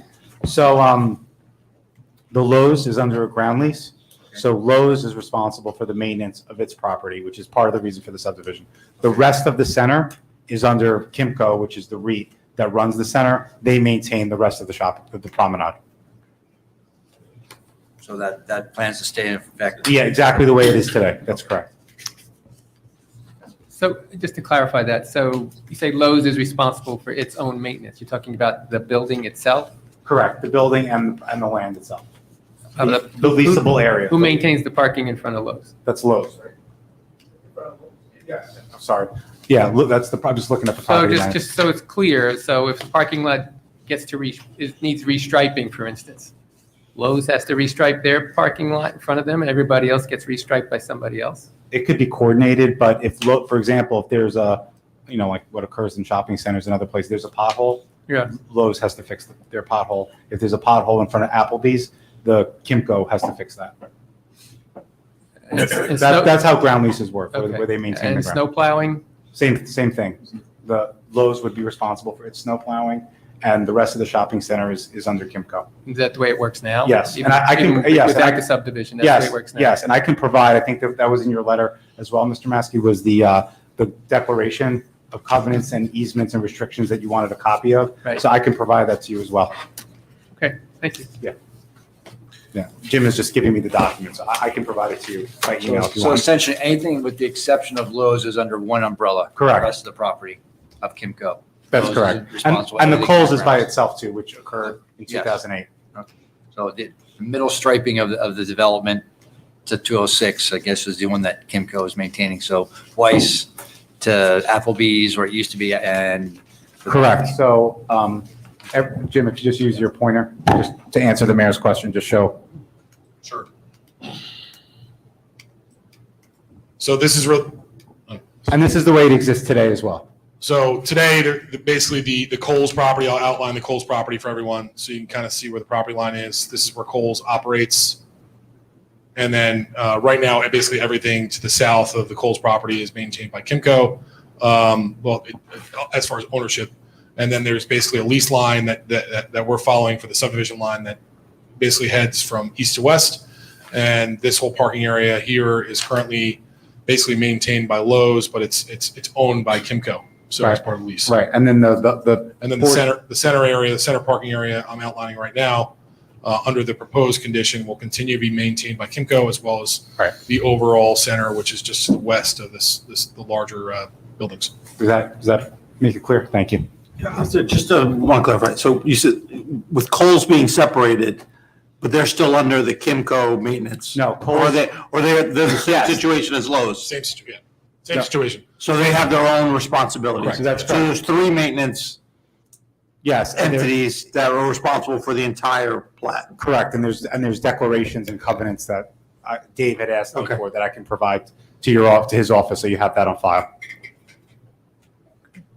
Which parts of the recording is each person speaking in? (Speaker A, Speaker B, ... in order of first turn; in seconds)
Speaker A: 0.4-1.2, 2.3-15.8, 19.8-21.7, 30.0-32.0, 32.8-34.5, 35.8-36.5, 38.4-41.4, 51.7-63.8, 65.5-68.4, 69.3-75.7, 76.8-78.5, 79.0-89.6, 92.5-96.2, 99.3-99.7, 101.7-105.7, 116.9-122.4, 128.5-130.1, 160.4-162.9, 174.8-176.7, 183.9-184.6, 190.3-190.9, 193.0-193.7, 196.4-203.5
Speaker B: 18.0-19.9, 95.6-103.7, 105.1-105.3, 105.9-109.0, 109.7-113.5, 114.0-117.2
Speaker C: 23.7-29.7, 32.8-35.7, 40.9-46.3, 46.9-51.5, 58.1-58.3, 65.5-66.6, 67.3-69.0, 75.8-79.8, 90.4-91.1
Speaker D: 126.8-128.2, 130.4-138.0, 139.2-151.0, 151.6-161.1, 162.4-174.5, 186.8-188.4, 190.2-190.5
Speaker E: 177.0-181.2, 181.8-186.9, 188.6-192.0, 193.4-196.3, 200.1-200.4